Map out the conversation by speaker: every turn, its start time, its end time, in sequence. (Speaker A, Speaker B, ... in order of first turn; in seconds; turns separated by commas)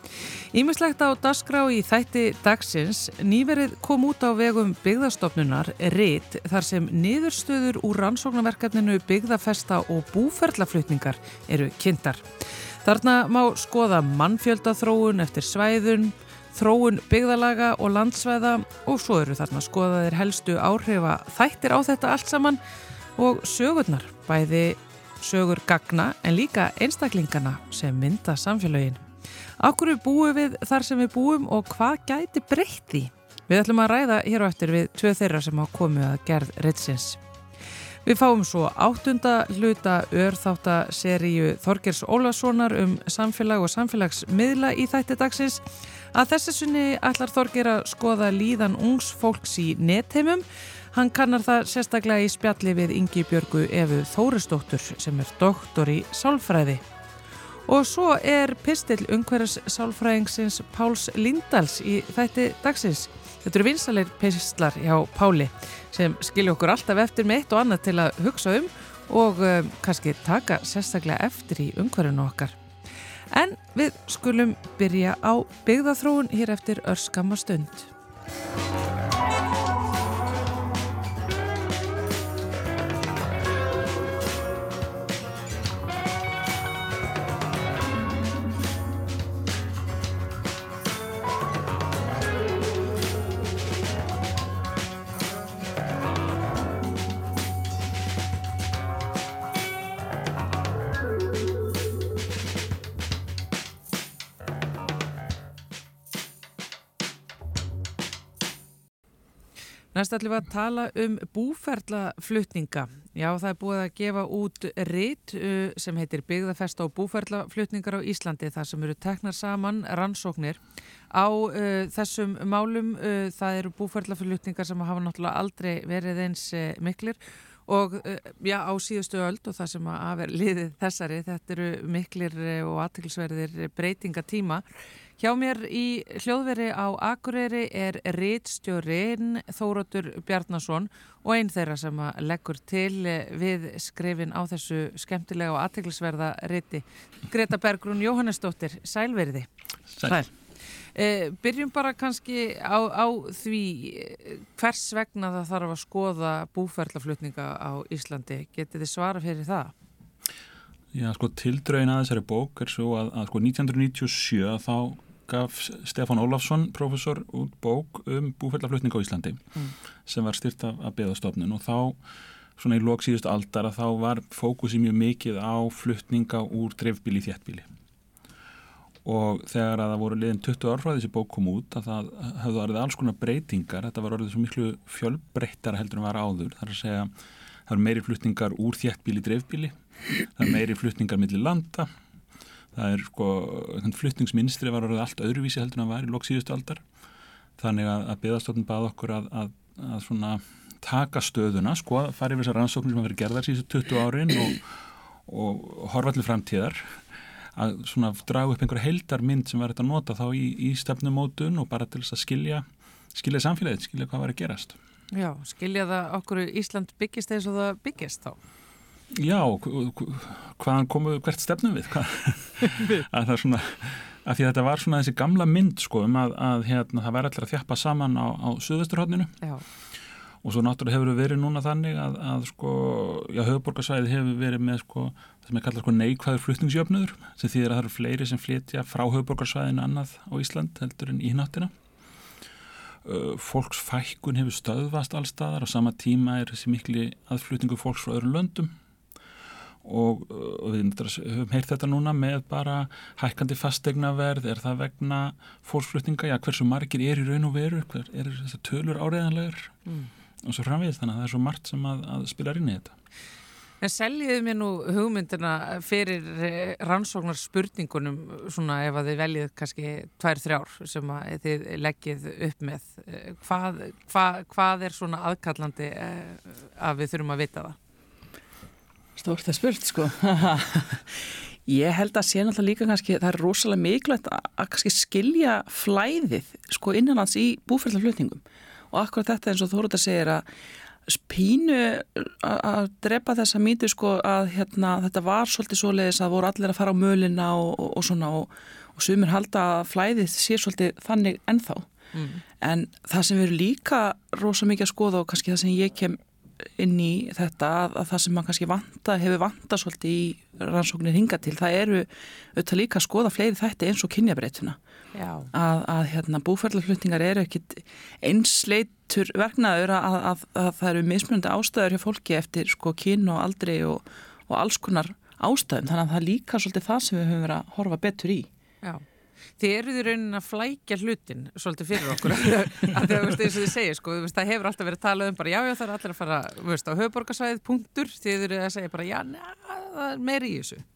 Speaker A: 0.2-22.6, Speaker A: 23.2-29.0, Speaker A: 29.6-37.2, Speaker A: 38.0-56.8, Speaker A: 57.7-72.5, Speaker A: 73.3-77.9, Speaker A: 109.9-120.6, Speaker A: 121.1-134.6, Speaker A: 135.2-149.5, Speaker A: 150.9-159.7, Speaker B: 160.9-169.5, Speaker B: 170.1-172.0, Speaker B: 172.6-177.7, Speaker B: 179.0-187.1, Speaker B: 187.7-191.9, Speaker B: 192.7-196.8, Speaker B: 197.6-204.7, Speaker B: 205.2-207.0, Speaker B: 207.5-214.8, Speaker A: 215.1-218.4, Speaker B: 219.2-229.3, Speaker A: 222.7-223.0, Speaker B: 230.4-241.7, Speaker B: 243.0-248.7, Speaker B: 249.8-259.8, Speaker B: 260.4-262.9, Speaker A: 263.8-277.8, Speaker C: 279.1-290.5, Speaker C: 291.1-301.9, Speaker A: 302.1-302.4, Speaker C: 302.6-314.8, Speaker A: 315.1-315.5, Speaker C: 315.5-328.5, Speaker A: 329.6-340.8